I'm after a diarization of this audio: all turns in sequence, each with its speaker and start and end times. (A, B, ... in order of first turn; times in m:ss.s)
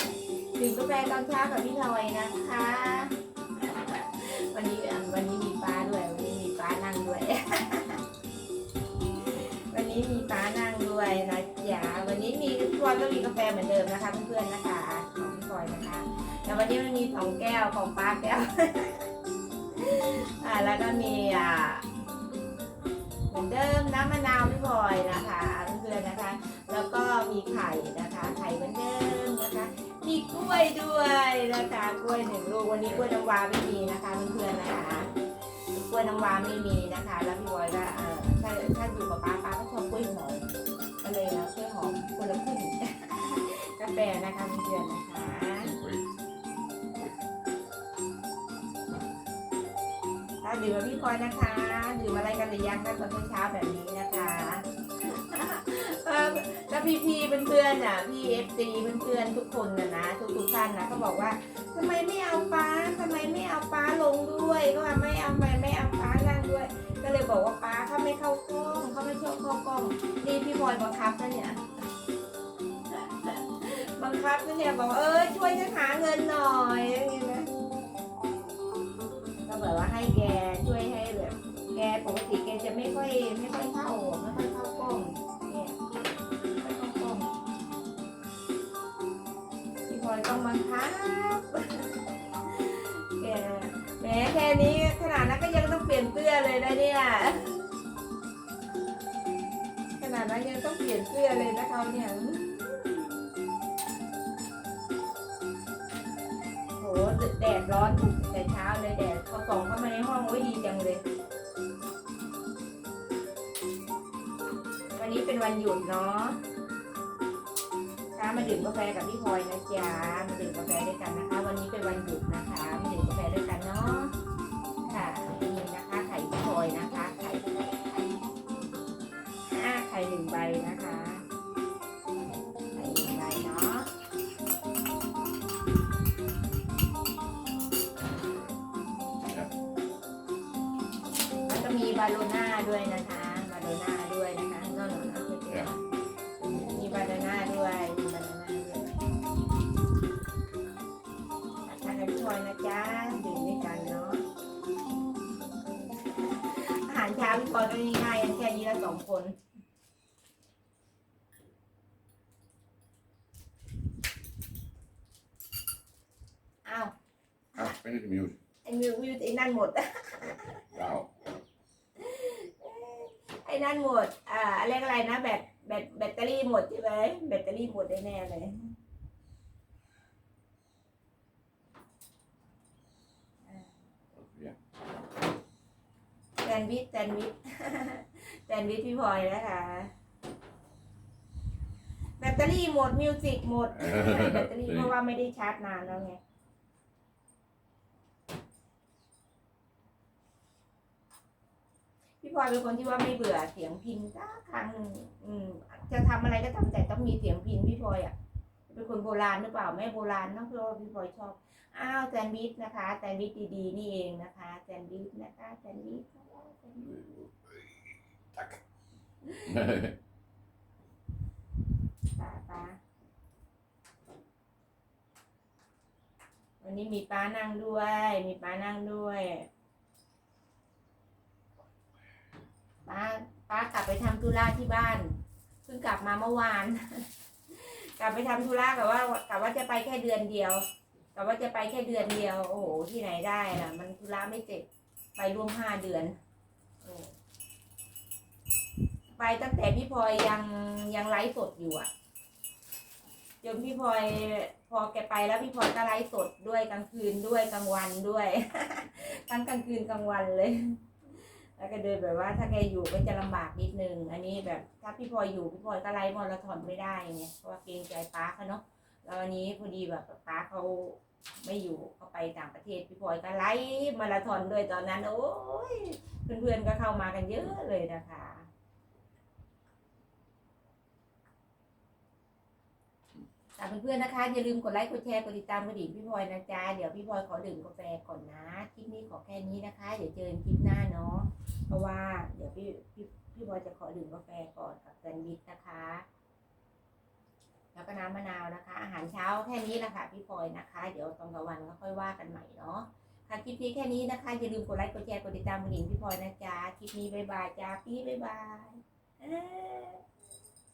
0:00.6-0:08.0 A
0:09.2-0:19.1 A
0:19.7-0:21.8 A
0:23.3-0:35.1 A
0:35.7-0:40.5 A
0:41.0-0:45.7 A
0:45.6-0:46.0 B
0:50.4-1:11.6 A
1:12.9-1:17.5 A
1:19.5-1:25.8 A
1:26.5-1:27.3 A
1:29.9-1:37.7 A
1:40.0-1:43.3 A
1:46.8-1:51.0 A
1:55.0-1:56.4 A
1:58.2-2:04.1 A
2:04.9-2:08.2 A
2:09.5-2:11.2 A
2:12.8-2:13.9 A
2:19.2-2:19.5 B
2:21.5-2:25.8 A
2:26.4-2:26.8 B
2:26.7-2:28.9 A
2:31.6-2:34.2 A
2:36.4-2:39.4 A
2:46.6-2:46.9 A
2:47.6-2:48.4 B
2:48.6-2:50.7 A
2:50.2-2:51.1 B
2:52.0-2:58.7 A
3:03.5-3:03.7 A
3:04.2-3:04.6 B
3:06.4-3:09.9 A
3:12.2-3:16.2 A
3:13.8-3:14.9 B
3:22.2-3:28.1 A
3:28.7-3:37.1 A
3:37.0-3:37.3 B
3:39.2-3:39.6 A
3:39.5-3:40.0 B
3:42.2-3:42.8 A
3:46.6-3:49.5 A
3:52.9-3:55.1 A
3:55.6-4:06.2 A
4:06.8-4:07.1 A
4:09.2-4:11.9 A
4:13.4-4:38.5 A
4:43.6-4:56.0 A
4:57.7-5:10.0 A